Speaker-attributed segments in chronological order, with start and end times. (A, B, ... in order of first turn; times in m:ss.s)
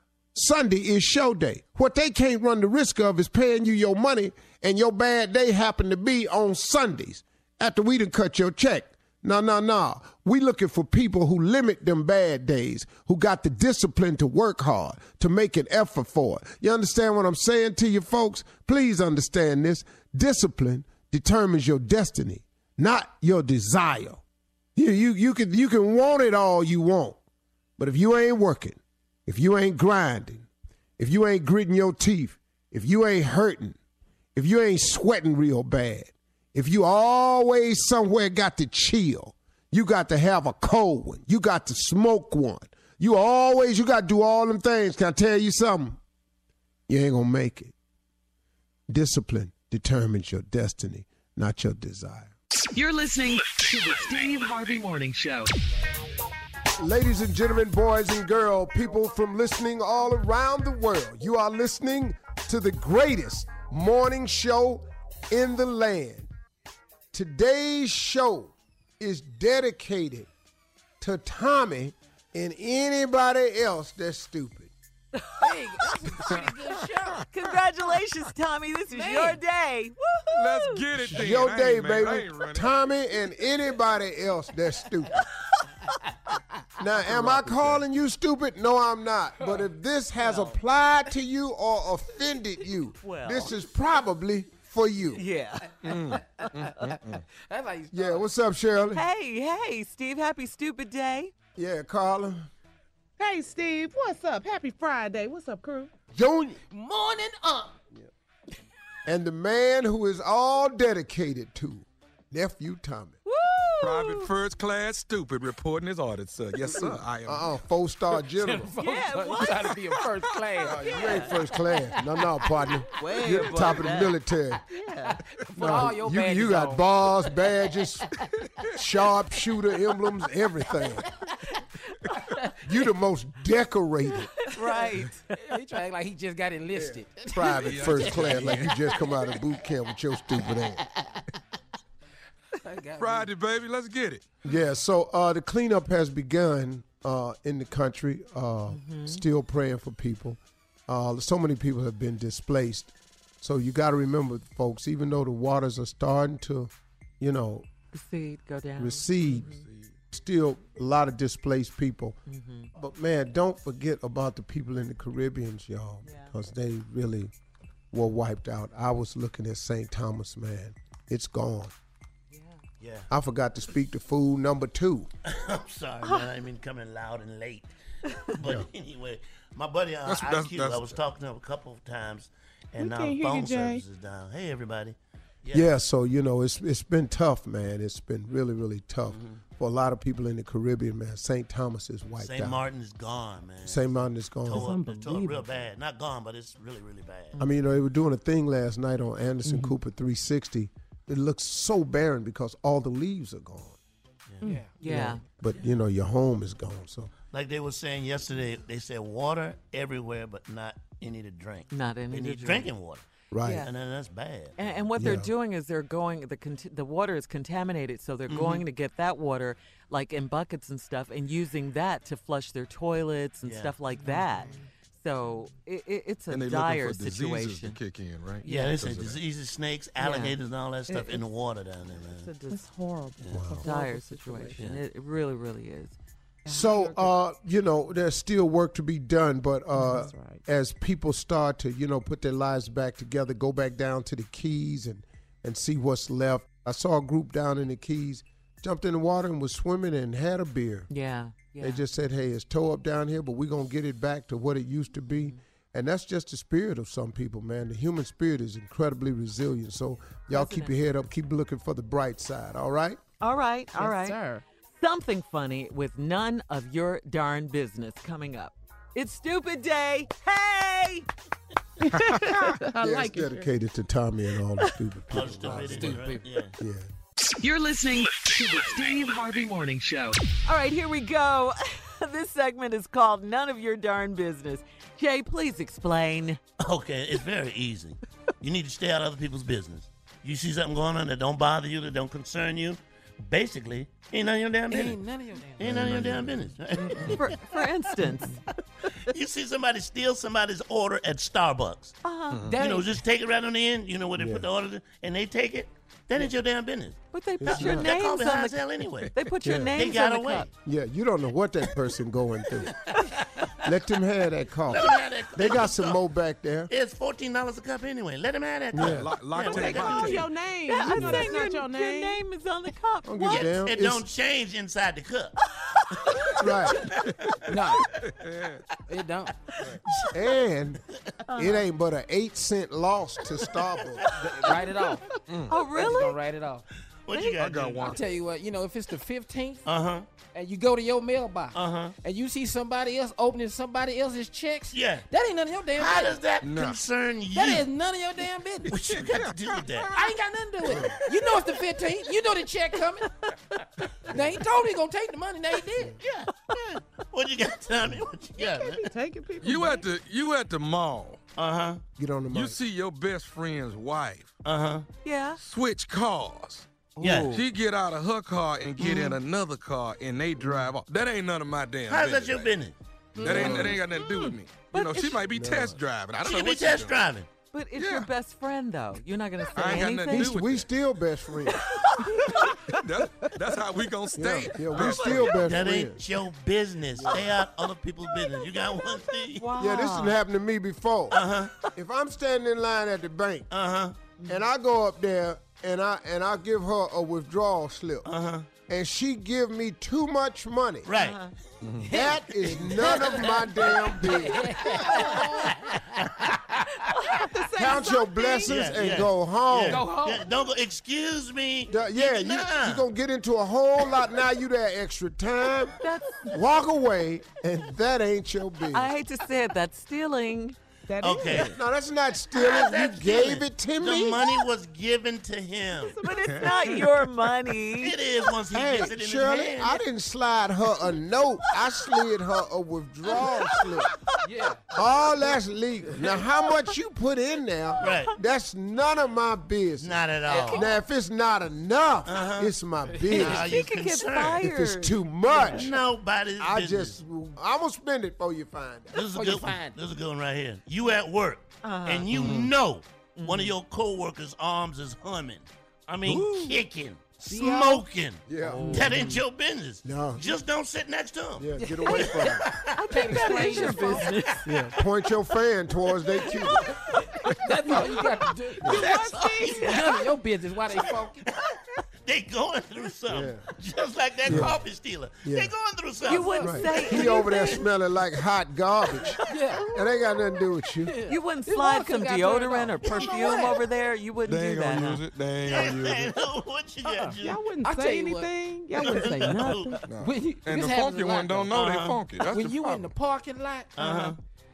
0:00.3-0:24.2 A
0:24.8-0:27.2 A
0:27.8-0:33.8 A
0:34.3-0:46.0 A
0:46.9-0:47.7 A
0:48.9-0:52.3 A
0:52.7-0:55.5 B
0:56.8-1:06.3 A
1:07.1-1:10.3 A
1:11.0-1:14.7 A
1:15.4-1:17.2 C
1:17.3-1:20.8 D
1:18.9-1:19.4 C
1:20.3-1:22.7 E
1:21.0-1:25.2 A
1:26.8-1:35.2 A
1:27.1-1:27.8 C
1:30.2-1:30.5 D
1:33.0-1:33.6 D
1:35.1-1:36.5 D
1:35.8-1:37.2 E
1:36.4-1:38.2 C
1:37.9-1:39.0 A
1:38.9-1:41.3 D
1:41.6-1:42.5 A
1:43.2-1:45.9 F
1:46.1-1:46.6 A
1:46.7-1:47.8 C
1:49.0-1:53.2 A
1:53.2-1:54.3 D
1:53.8-1:57.5 E
1:56.6-1:58.7 A
1:58.3-2:02.0 C
1:58.8-1:59.8 D
2:00.6-2:01.3 D
2:00.6-2:04.6 A
2:03.0-2:04.2 D
2:04.7-2:05.2 D
2:05.0-2:06.9 C
2:05.6-2:08.1 A
2:08.7-2:11.1 A
2:12.1-2:12.5 C
2:12.6-2:14.3 A
2:14.5-2:15.3 D
2:14.7-2:18.8 C
2:16.7-2:20.8 A
2:17.6-2:18.9 E
2:20.6-2:21.2 C
2:22.6-2:23.3 C
2:23.0-2:24.2 E
2:24.4-2:37.6 A
2:28.7-2:29.2 D
2:37.9-2:39.6 D
2:38.8-2:39.5 A
2:40.1-2:42.2 A
2:42.3-2:42.7 D
2:42.7-2:47.3 A
2:46.0-2:46.3 D
2:47.9-2:51.7 A
2:52.3-2:52.6 D
2:52.8-2:53.1 G
2:53.1-2:55.1 A
2:55.2-2:57.7 G
2:58.3-3:05.7 G
3:00.0-3:01.0 E
3:02.8-3:03.8 F
3:05.5-3:12.6 A
3:09.1-3:09.4 G
3:12.2-3:17.4 G
3:13.6-3:14.7 A
3:14.5-3:15.4 C
3:17.4-3:23.8 A
3:24.3-3:24.5 G
3:24.4-3:24.8 C
3:24.4-3:25.2 D
3:24.8-3:27.1 A
3:27.3-3:33.0 G
3:31.7-3:32.7 D
3:33.3-3:33.7 A
3:33.4-3:33.7 D
3:33.6-3:34.8 G
3:34.6-3:47.8 D
3:35.0-3:35.3 A
3:38.3-3:38.6 G
3:43.4-3:43.7 G
3:44.1-3:44.6 F
3:46.3-3:49.2 E
3:48.4-3:52.3 G
3:50.0-3:50.4 D
3:52.2-3:52.6 D
3:52.5-3:54.6 F
3:53.2-3:53.6 G
3:53.3-3:53.6 A
3:53.6-3:56.0 D
3:54.6-3:54.8 G
3:56.4-3:57.1 F
3:56.5-4:10.9 A
3:59.7-4:00.4 F
4:10.9-4:11.8 D
4:11.6-4:23.0 A
4:20.3-4:20.8 D
4:23.2-4:24.2 D
4:23.8-4:24.4 F
4:24.8-4:31.0 D
4:31.9-4:33.5 F
4:32.8-4:36.9 A
4:35.1-4:36.5 G
4:35.4-4:36.3 C
4:37.4-4:40.2 B
4:40.4-4:46.4 D
4:46.6-4:55.0 G
4:54.7-4:55.8 C
4:55.6-4:57.3 G
4:55.6-4:56.4 A
4:57.1-4:58.4 D
4:59.1-5:01.9 G
5:02.0-5:02.4 D
5:02.3-5:02.6 E
5:02.5-5:03.0 C
5:02.6-5:09.1 G
5:04.2-5:04.4 A
5:07.1-5:10.5 D
5:07.4-5:07.9 A
5:09.4-5:09.8 A
5:09.7-5:10.5 G
5:10.6-5:12.7 A
5:13.6-5:16.7 A
5:14.7-5:16.0 G
5:16.7-5:20.3 G
5:18.7-5:19.1 A
5:18.8-5:20.3 E
5:19.5-5:22.2 F
5:20.7-5:23.5 D
5:21.0-5:21.3 A
5:23.0-5:24.0 A
5:23.3-5:25.4 G
5:26.4-5:26.9 A
5:26.8-5:27.1 G
5:27.4-5:27.9 C
5:27.9-5:28.6 E
5:28.9-5:29.4 C
5:29.8-5:30.1 G
5:30.1-5:30.8 A
5:31.3-5:31.6 D
5:31.3-5:34.3 A
5:34.0-5:34.6 G
5:34.4-5:35.1 C
5:35.3-5:35.6 E
5:35.5-5:36.2 D
5:35.7-5:36.6 C
5:37.0-5:38.0 G
5:37.1-5:37.4 D
5:37.4-5:38.0 E
5:37.8-5:39.6 C
5:39.6-5:40.0 G
5:40.3-5:46.2 C
5:41.5-5:41.9 G
5:44.7-5:45.1 G
5:45.8-5:47.6 G
5:46.4-5:46.8 E
5:47.3-5:48.8 C
5:48.7-5:50.0 G
5:49.9-5:53.1 C
5:50.7-5:51.0 A
5:54.0-5:56.0 C
5:56.0-5:58.9 G
5:58.4-5:59.9 F
5:59.4-6:01.2 E
6:01.4-6:01.8 G
6:02.0-6:02.6 A
6:02.3-6:04.3 E
6:04.4-6:04.9 G
6:05.0-6:05.4 D
6:05.4-6:06.7 E
6:07.0-6:07.4 A
6:07.0-6:07.4 G
6:07.3-6:12.5 E
6:08.8-6:09.2 D
6:10.4-6:10.7 A
6:11.9-6:12.7 G
6:13.2-6:13.7 C
6:13.2-6:13.8 A
6:13.2-6:17.0 E
6:13.4-6:13.6 G
6:14.7-6:15.2 D
6:15.3-6:15.8 A
6:16.2-6:17.3 G
6:17.5-6:20.3 D
6:17.8-6:18.1 E
6:19.5-6:20.7 E
6:19.8-6:21.6 A
6:21.8-6:22.5 D
6:22.7-6:25.4 E
6:24.2-6:26.0 A
6:24.7-6:25.3 D
6:25.3-6:29.4 G
6:27.0-6:27.3 A
6:29.4-6:30.2 D
6:29.6-6:31.2 A
6:31.1-6:31.5 G
6:31.7-6:33.5 A
6:33.5-6:34.0 G
6:34.2-6:38.1 A
6:38.0-6:38.5 G
6:38.7-6:40.9 A
6:40.8-6:41.2 G
6:41.0-6:41.3 D
6:41.6-6:41.9 E
6:41.8-6:46.5 C
6:41.8-6:44.5 A
6:42.8-6:43.2 G
6:44.9-6:45.1 D
6:47.2-6:48.7 F
6:47.5-6:49.8 A
6:48.4-6:52.8 G
6:49.7-6:50.3 C
6:51.7-6:55.7 A
6:55.8-6:56.3 D
6:56.2-6:58.9 A
6:58.7-7:00.6 D
7:00.9-7:01.6 F
7:01.0-7:01.5 G
7:01.4-7:04.2 A
7:02.3-7:06.0 G
7:05.8-7:06.1 F
7:06.0-7:07.9 D
7:07.8-7:09.8 G
7:08.5-7:13.9 A
7:14.2-7:14.6 C
7:14.7-7:23.6 A
7:17.8-7:18.1 G
7:19.8-7:20.7 G
7:20.3-7:20.6 D
7:22.1-7:22.5 G
7:22.9-7:23.3 C
7:23.1-7:24.5 G
7:23.2-7:25.7 D
7:24.4-7:25.8 A
7:25.4-7:27.0 G
7:26.4-7:29.0 A
7:28.9-7:43.1 G
7:29.1-7:29.8 C
7:31.6-7:32.1 D
7:32.1-7:32.5 E
7:33.2-7:33.5 D
7:37.3-7:37.8 D
7:38.3-7:39.1 A
7:39.8-7:40.2 A
7:41.4-7:42.5 A
7:41.6-7:44.2 C
7:42.8-7:44.5 D
7:43.3-7:44.0 F
7:44.4-7:46.7 A
7:46.7-7:48.9 C
7:48.6-7:50.0 G
7:48.6-7:49.8 F
7:49.6-7:51.2 C
7:50.7-7:57.0 G
7:53.1-7:53.4 A
7:54.2-7:54.6 A
7:55.2-7:55.5 A
7:56.1-7:57.6 D
7:56.4-7:59.2 A
7:59.3-7:59.7 C
7:59.7-8:00.9 A
8:00.8-8:03.6 C
8:01.1-8:05.0 D
8:02.9-8:03.4 G
8:04.2-8:06.2 E
8:05.4-8:07.4 G
8:07.2-8:09.8 F
8:07.6-8:08.3 C
8:08.7-8:09.8 G
8:09.9-8:12.9 E
8:10.0-8:11.6 C
8:11.5-8:12.0 G
8:12.2-8:14.1 C
8:13.8-8:14.2 G